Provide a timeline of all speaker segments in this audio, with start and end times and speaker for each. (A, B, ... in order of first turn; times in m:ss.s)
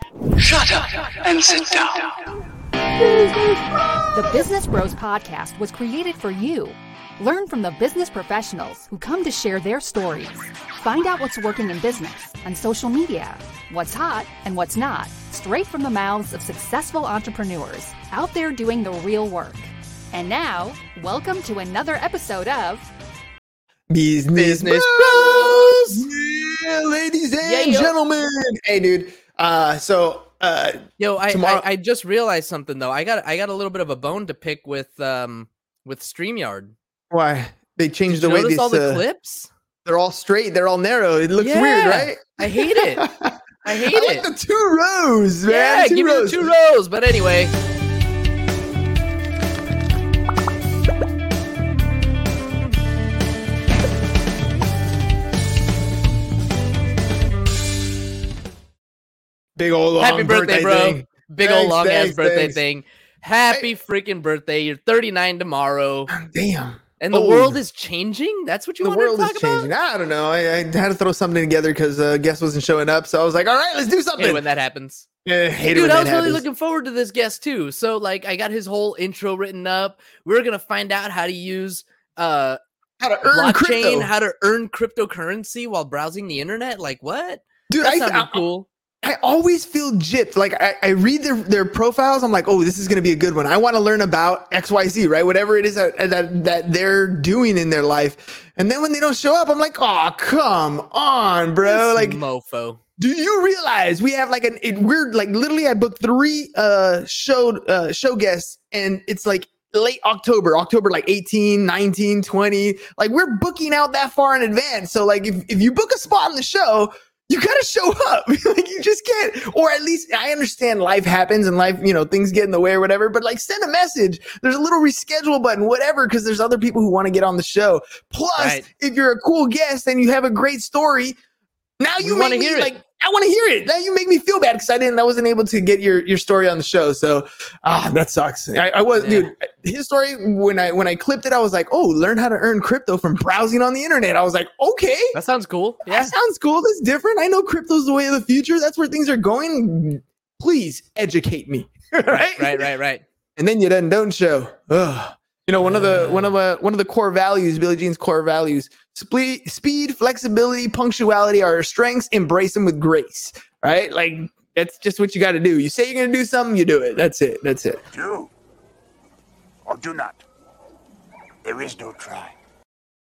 0:01.3-0:01.7 A
0:03.0-0:03.5 B
0:04.1-0:22.9 B
0:23.9-0:31.6 C
0:24.3-0:26.0 D
0:27.4-0:27.9 D
0:31.0-0:36.7 D
0:37.1-0:39.0 C
0:38.1-0:39.5 D
0:39.8-0:46.5 C
0:41.4-0:43.1 D
0:43.6-0:44.3 D
0:45.4-0:47.5 D
0:59.6-1:02.6 C
1:00.0-1:06.1 D
1:06.1-1:07.6 C
1:07.0-1:09.7 D
1:08.8-1:14.4 C
1:14.2-1:15.1 D
1:15.2-1:16.4 C
1:15.7-1:22.6 D
1:23.0-1:24.1 C
1:23.2-1:28.7 D
1:27.7-1:28.4 C
1:29.0-1:42.2 C
1:41.6-1:42.8 D
1:43.0-2:11.2 C
2:08.4-2:08.6 D
2:11.8-2:25.2 C
2:12.0-2:12.7 D
2:19.0-2:19.3 D
2:25.1-2:26.1 D
2:25.8-2:32.7 C
2:32.1-2:33.0 D
2:33.4-2:47.8 C
2:35.6-2:36.3 D
2:47.9-2:48.3 A
2:49.6-2:50.2 A
2:51.4-2:52.3 A